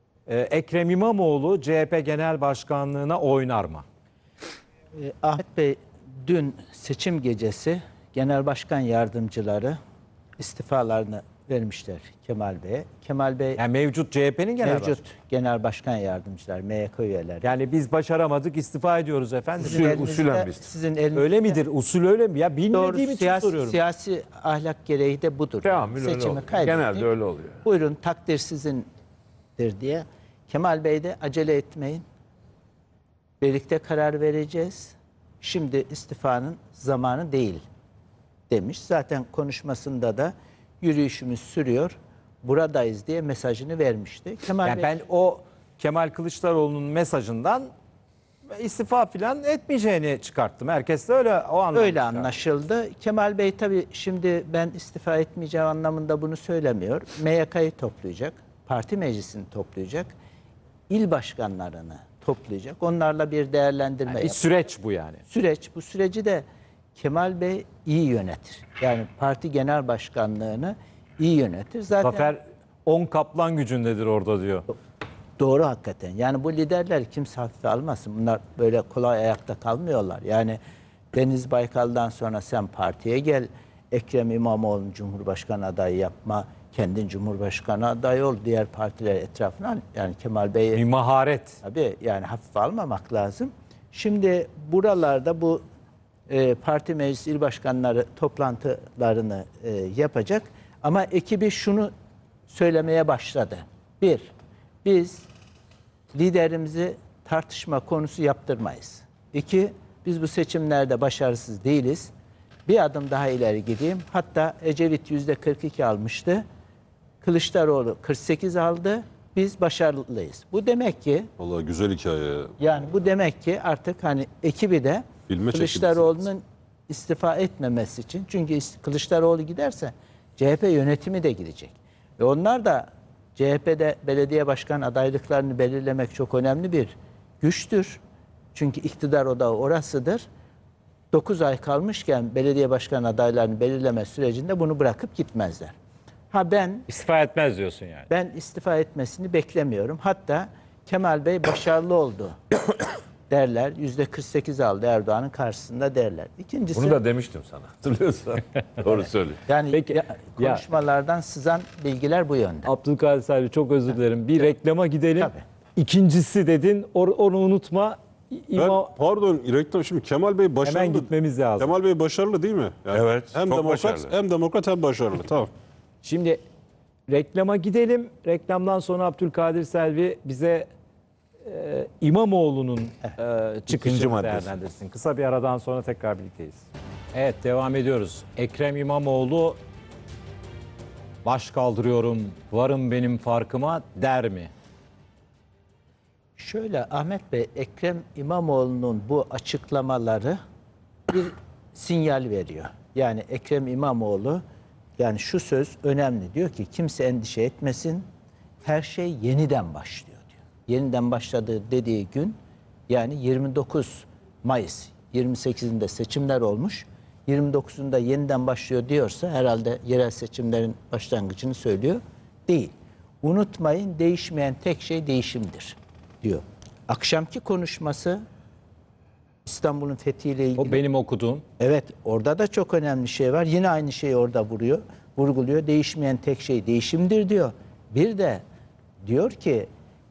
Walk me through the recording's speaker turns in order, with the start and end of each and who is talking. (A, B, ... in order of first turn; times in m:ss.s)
0:00.3-0:03.8 A
0:05.0-0:09.8 B
0:10.4-0:13.6 B
0:13.6-0:15.0 A
0:14.6-0:17.5 B
0:17.4-0:19.8 A
0:19.6-0:20.6 C
0:19.6-0:21.6 B
0:21.1-0:23.8 A
0:22.7-0:27.1 B
0:25.6-0:27.6 C
0:27.6-0:28.9 B
0:29.6-0:32.0 B
0:33.4-0:37.6 B
0:38.5-0:45.0 B
0:44.6-0:47.7 A
0:48.5-0:52.3 A
0:51.7-1:00.1 B
1:00.9-1:04.4 B
1:04.1-1:05.2 A
1:05.3-1:06.4 B
1:07.0-1:12.3 B
1:12.0-1:14.6 A
1:15.4-1:20.6 B
1:21.1-1:30.8 B
1:30.7-1:31.6 A
1:31.6-1:35.6 B
1:36.3-1:41.9 B
1:42.5-1:44.3 B
1:44.8-1:45.3 B
1:46.1-1:52.1 B
1:52.7-1:56.4 B
1:57.2-2:01.3 B
2:01.4-2:02.5 D
2:02.6-2:18.0 B
2:05.3-2:06.2 D
2:18.5-2:20.2 B
2:21.1-2:25.7 B
2:26.3-2:26.8 B
2:26.9-2:28.1 A
2:28.1-2:32.4 B
2:33.3-2:37.0 B
2:36.7-2:39.4 C
2:39.5-2:42.7 B
2:39.7-2:40.6 A
2:42.6-2:48.9 A
2:45.2-2:45.4 B
2:48.6-2:55.5 D
2:50.6-2:51.7 A
2:52.9-2:54.1 C
2:56.0-2:56.4 A
2:57.1-3:00.7 A
3:01.4-3:09.6 A
3:03.7-3:04.5 D
3:11.2-3:14.5 A
3:16.4-3:20.4 B
3:21.1-3:24.4 B
3:25.0-3:28.0 B
3:28.6-3:32.4 B
3:32.9-3:48.2 B
3:49.4-3:50.8 B
3:50.6-3:51.4 A
3:51.6-3:58.4 B
3:59.0-3:59.7 B